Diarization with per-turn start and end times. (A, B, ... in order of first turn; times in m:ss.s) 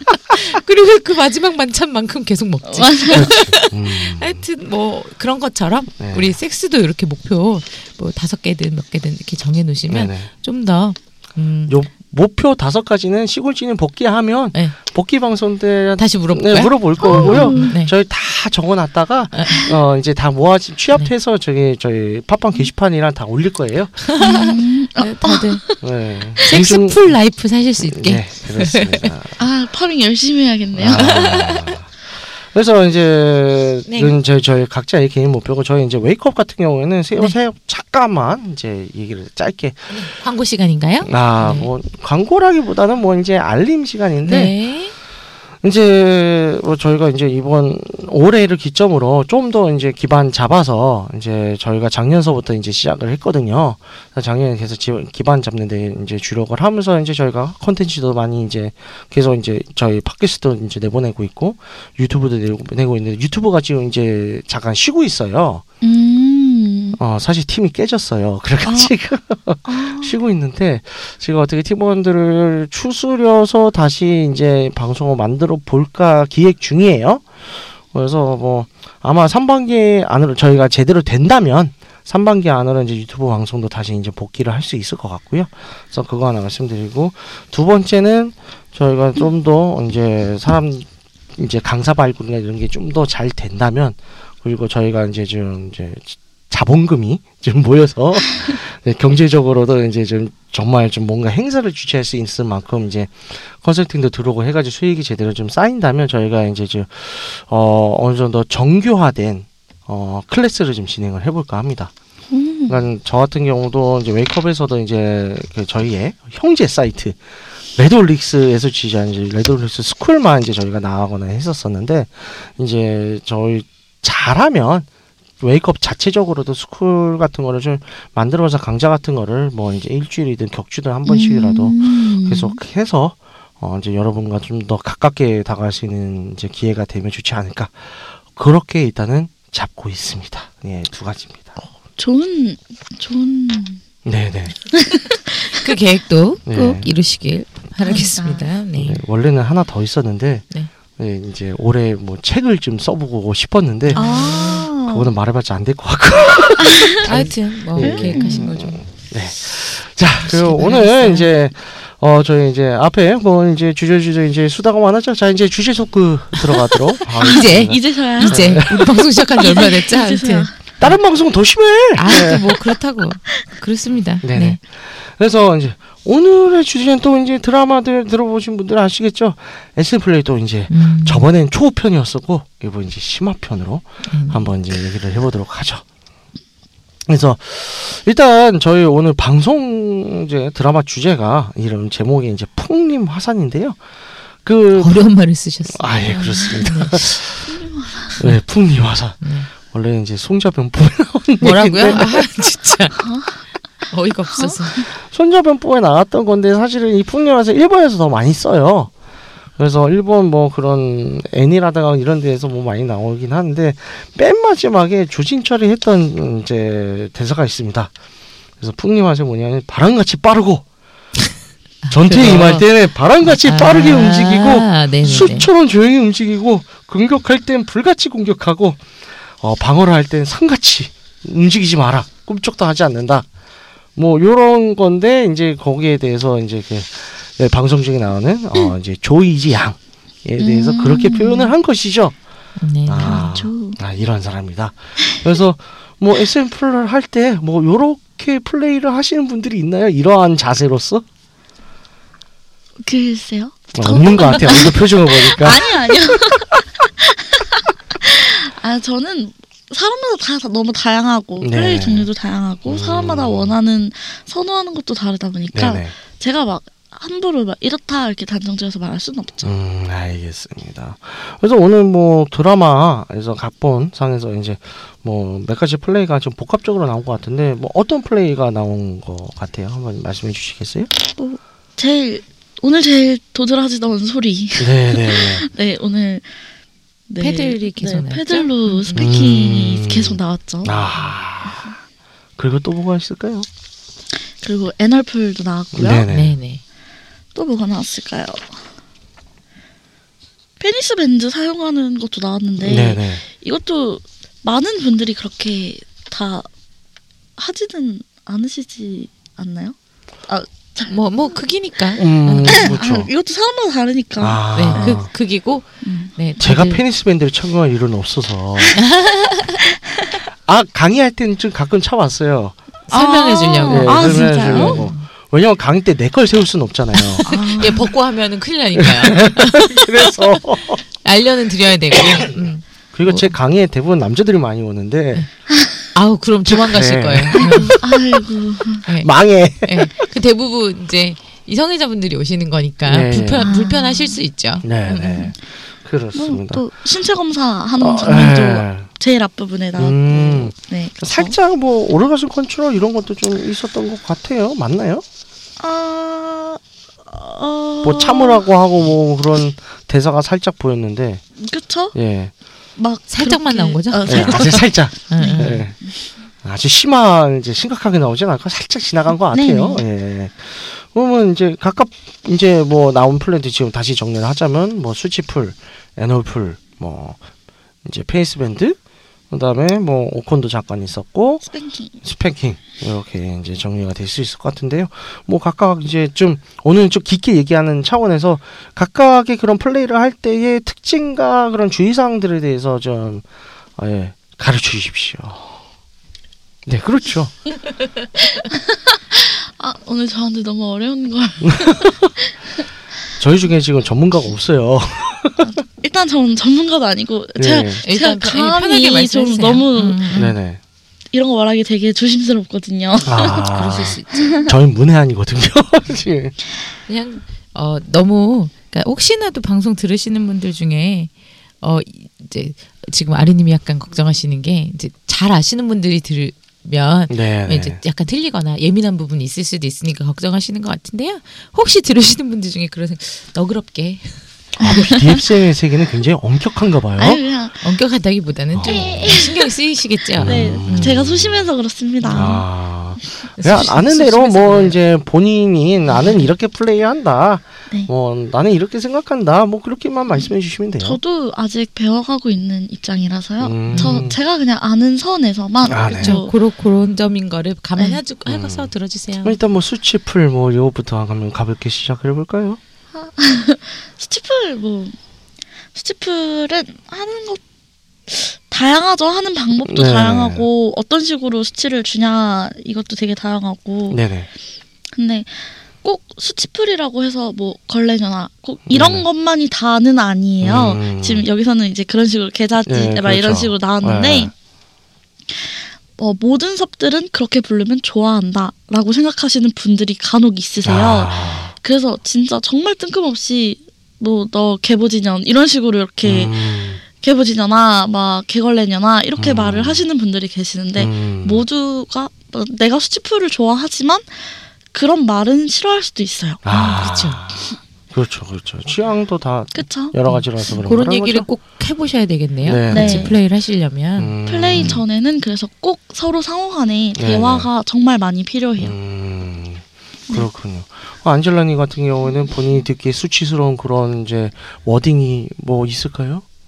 0:00.3-0:11.8 A
0:02.7-0:03.4 B
0:03.1-0:04.4 C
0:06.0-0:06.4 C
0:09.9-0:10.3 C
0:11.7-0:24.2 C
0:16.0-0:17.9 A
0:17.0-0:17.8 B
0:19.3-0:19.7 A
0:24.1-0:25.6 A
0:24.2-0:25.8 B
0:25.8-0:27.1 C
0:26.4-0:29.1 A
0:27.8-0:29.4 C
0:29.4-0:31.4 B
0:30.7-0:40.0 C
0:31.0-0:31.6 A
0:33.9-0:34.2 A
0:39.9-0:41.7 A
0:41.0-0:44.5 C
0:44.2-0:44.9 A
0:45.6-1:05.6 C
1:05.8-1:07.0 B
1:07.0-1:17.3 C
1:08.6-1:08.9 B
1:09.6-1:10.2 B
1:17.9-1:51.9 C
1:52.3-1:52.8 B
1:52.7-1:57.2 C
1:57.8-2:04.9 C
2:05.4-2:21.7 C
2:11.1-2:12.6 B
2:22.0-2:23.8 B
2:24.0-2:24.6 C
2:24.7-2:25.7 B
2:25.5-2:29.0 A
2:26.5-2:26.9 C
2:27.8-2:28.5 B
2:28.8-2:30.4 C
2:31.0-2:48.8 C
2:33.9-2:34.7 A
2:34.0-2:35.1 B
2:36.7-2:37.0 B
2:37.0-2:38.8 A
2:37.8-2:38.5 B
2:40.2-2:41.3 A
2:46.6-2:50.6 B
2:47.2-2:51.0 A
2:50.8-2:52.4 C
2:52.0-2:54.6 A
2:54.2-3:05.8 C
3:00.7-3:01.3 A
3:04.1-3:04.5 A
3:07.1-3:13.8 C
3:14.4-3:15.0 C
3:14.8-3:17.2 A
3:15.7-3:17.6 C
3:17.5-3:18.2 B
3:18.2-3:22.2 C
3:19.2-3:19.5 A
3:21.4-3:23.1 A
3:23.0-3:23.4 B
3:23.9-3:24.9 A
3:24.3-3:24.9 B
3:25.0-3:28.9 C
3:29.6-3:37.9 C
3:38.6-3:40.6 C
3:41.8-3:42.7 A
3:41.9-3:48.8 C
3:43.2-3:45.5 A
3:49.4-3:53.3 C
3:54.0-4:02.2 C
4:00.4-4:01.5 B
4:02.6-4:03.3 A
4:02.9-4:11.0 C
4:03.0-4:03.8 B
4:12.8-4:29.5 B
4:13.7-4:16.3 C
4:21.4-4:22.1 C
4:22.7-4:23.5 C
4:25.5-4:26.0 C
4:29.4-4:40.9 C
4:41.2-4:46.4 B
4:44.6-4:45.5 C
4:47.1-4:51.0 B
4:47.2-4:49.1 A
4:49.0-4:51.8 C
4:52.4-4:53.5 C
4:54.4-4:56.0 B
4:55.7-4:56.4 C
4:56.1-4:56.6 A
4:57.4-4:58.6 B
5:00.6-5:06.5 B
5:02.6-5:03.2 C
5:07.4-5:09.8 B
5:10.3-5:11.0 B
5:10.9-5:12.7 A
5:12.0-5:13.1 C
5:12.4-5:15.0 B
5:14.2-5:15.1 C
5:14.5-5:16.8 A
5:15.8-5:16.1 B
5:16.4-5:18.8 C
5:18.8-5:19.6 A
5:20.4-5:22.6 C
5:22.9-5:25.0 A
5:22.9-5:24.8 B
5:23.7-5:27.8 C
5:27.0-5:30.2 A
5:27.2-5:27.9 B
5:28.8-5:30.8 C
5:31.0-5:33.3 A
5:31.9-5:35.3 C
5:35.9-5:37.8 A
5:36.4-5:38.2 C
5:37.4-5:38.9 B
5:38.9-5:45.3 A
5:39.0-5:39.9 C
5:42.9-5:43.5 C
5:43.4-5:44.2 B
5:44.6-5:46.7 C
5:46.1-5:51.4 B
5:47.8-5:48.9 C
5:49.8-5:55.0 C
5:55.6-5:58.4 B
5:57.8-6:01.2 C
6:01.4-6:02.0 B
6:01.9-6:02.3 C
6:02.8-6:05.9 B
6:03.1-6:05.6 A
6:04.1-6:05.8 C
6:06.4-6:17.2 C
6:09.3-6:09.8 B
6:17.8-6:18.8 C
6:19.3-6:21.5 C
6:21.5-6:22.0 B
6:22.0-6:33.2 C
6:33.8-6:35.6 C
6:36.7-6:37.4 C
6:38.2-6:42.3 B
6:41.4-6:42.1 C
6:43.2-6:45.5 C
6:45.4-6:50.2 B
6:47.4-6:47.8 C
6:47.8-6:50.4 A
6:50.1-6:50.6 C
6:51.1-6:53.5 B
6:53.1-6:56.4 C
6:53.4-6:54.4 A
6:54.2-6:54.5 B
6:56.9-7:14.2 A
7:07.1-7:07.8 C
7:14.6-7:15.3 B
7:14.6-7:17.2 C
7:17.0-7:17.8 B
7:17.6-7:21.0 A
7:18.5-7:19.2 C
7:18.6-7:19.5 B
7:20.2-7:21.5 C
7:20.2-7:22.4 B
7:22.0-7:22.4 A
7:22.1-7:31.0 C
7:23.4-7:24.8 A
7:25.9-7:26.2 A
7:30.8-7:36.3 B
7:33.4-7:34.2 C
7:33.7-7:34.1 A
7:35.7-7:36.2 C
7:35.9-7:39.4 A
7:38.3-7:38.7 C
7:39.2-7:42.6 C
7:42.9-7:45.0 B
7:45.7-7:47.4 B
7:48.1-7:54.0 B
7:49.7-7:50.5 C
7:53.9-7:54.3 C
7:54.9-8:04.3 B
7:58.7-7:59.1 C
8:00.4-8:01.3 C
8:02.6-8:04.3 C
8:05.3-8:26.4 B
8:10.6-8:11.5 C
8:16.0-8:16.8 C
8:19.2-8:19.9 C
8:20.8-8:21.4 C
8:26.4-8:31.3 C
8:26.5-8:27.2 A
8:29.6-8:30.0 B
8:30.1-8:34.8 A
8:32.4-8:33.2 C
8:32.7-8:33.2 B
8:34.0-8:34.8 C
8:34.3-8:38.8 B
8:37.0-8:37.5 C
8:38.6-8:46.2 C